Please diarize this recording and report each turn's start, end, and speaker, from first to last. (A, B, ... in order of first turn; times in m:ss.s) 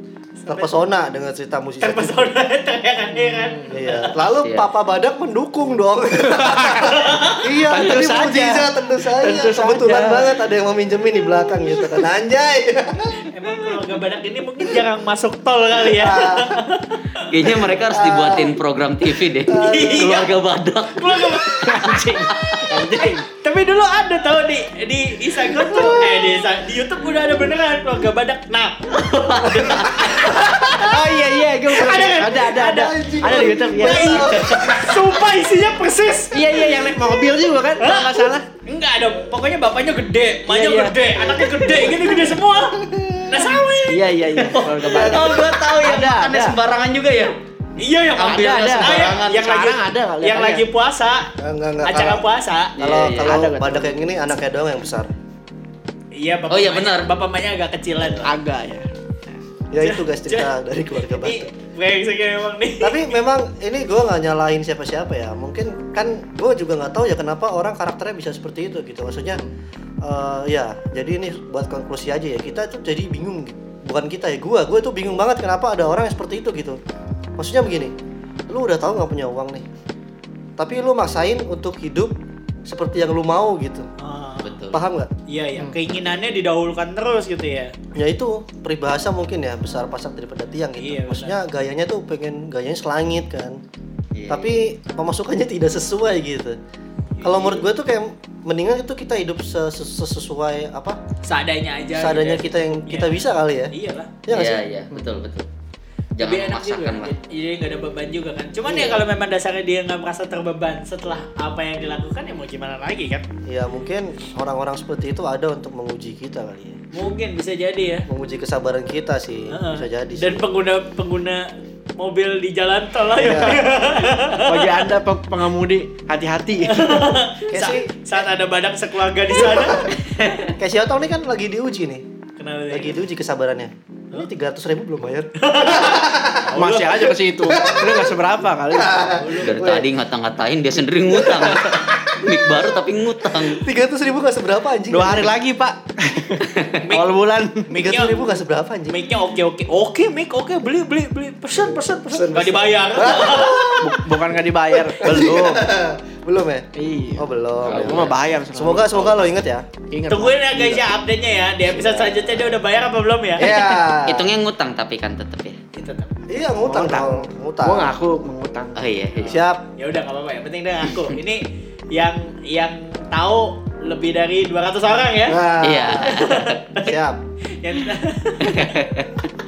0:00.4-0:00.7 A
0:00.5-0:02.3 B
0:01.8-0:04.1 A
0:03.1-0:03.8 C
0:03.7-0:13.2 B
0:04.3-0:04.7 D
0:06.2-0:10.3 C
0:06.9-0:07.4 A
0:13.3-0:17.6 A
0:15.9-0:16.5 B
0:17.3-0:22.6 D
0:17.8-0:18.5 B
0:19.5-0:20.3 A
0:19.5-0:20.1 B
0:20.9-0:21.9 A
0:21.6-0:23.2 C
0:23.0-0:37.1 A
0:25.5-0:26.4 B
0:29.0-0:30.2 D
0:30.0-0:30.5 B
0:30.6-0:34.3 C
0:32.5-0:35.0 B
0:34.4-0:34.8 D
0:36.3-0:38.4 C
0:37.8-0:45.1 A
0:40.5-0:41.9 C
0:41.2-0:43.6 B
0:43.9-0:46.6 C
0:44.6-0:47.4 D
0:44.8-0:45.5 B
0:47.8-0:51.3 A
0:48.2-0:49.4 D
0:48.2-0:50.6 C
0:51.4-0:52.2 B
0:51.8-0:52.7 A
0:52.8-0:55.1 B
0:52.8-0:53.5 D
0:53.2-0:54.0 C
0:56.2-0:58.4 A
0:56.5-0:57.1 D
0:58.0-0:58.3 B
0:58.2-0:58.9 C
0:59.7-1:01.5 B
0:59.8-1:00.5 A
1:01.0-1:03.2 A
1:02.8-1:09.4 B
1:10.0-1:16.8 B
1:17.4-1:17.9 B
1:18.5-1:19.6 B
1:20.6-1:22.1 B
1:22.6-1:23.9 B
1:24.0-1:24.6 A
1:24.4-1:24.8 D
1:24.7-1:25.1 B
1:25.3-1:27.7 A
1:27.9-1:33.6 B
1:30.8-1:31.4 A
1:34.1-1:34.6 D
1:34.3-1:36.6 B
1:37.0-1:37.7 A
1:37.2-1:41.0 B
1:41.2-1:44.1 A
1:41.9-1:43.7 B
1:44.2-1:44.6 B
1:44.3-1:45.5 D
1:46.2-1:47.1 D
1:46.2-1:53.3 A
1:48.7-1:49.0 B
1:53.4-1:56.8 B
1:56.9-1:58.0 A
1:58.1-2:00.4 B
1:59.5-2:01.5 A
2:02.0-2:04.8 A
2:03.1-2:03.7 B
2:04.4-2:07.1 C
2:06.7-2:10.4 A
2:07.5-2:07.9 B
2:09.6-2:09.9 B
2:10.6-2:12.0 B
2:12.4-2:13.0 A
2:12.7-2:16.5 B
2:15.4-2:17.2 A
2:16.6-2:19.3 C
2:17.4-2:18.1 B
2:18.7-2:19.8 B
2:19.2-2:19.5 A
2:19.4-2:23.6 D
2:21.2-2:21.8 B
2:23.3-2:25.3 B
2:24.9-2:27.7 C
2:26.8-2:27.1 A
2:27.7-2:29.0 B
2:27.7-2:28.2 A
2:28.9-2:34.0 A
2:31.5-2:34.0 B
2:33.8-2:35.7 C
2:34.7-2:39.6 B
2:36.7-2:39.2 C
2:37.6-2:38.2 D
2:39.9-2:40.8 C
2:40.1-2:43.5 A
2:41.6-2:42.6 B
2:43.4-2:44.3 B
2:44.0-2:45.6 D
2:45.7-2:46.1 A
2:46.3-2:48.0 B
2:46.6-2:48.8 C
2:48.8-2:49.4 D
2:49.2-2:49.6 B
2:49.8-2:55.4 A
2:55.3-2:56.3 B
2:55.6-2:56.6 D
2:56.0-2:56.9 A
2:56.8-2:57.2 B
2:57.6-2:58.8 A
2:58.5-2:59.2 D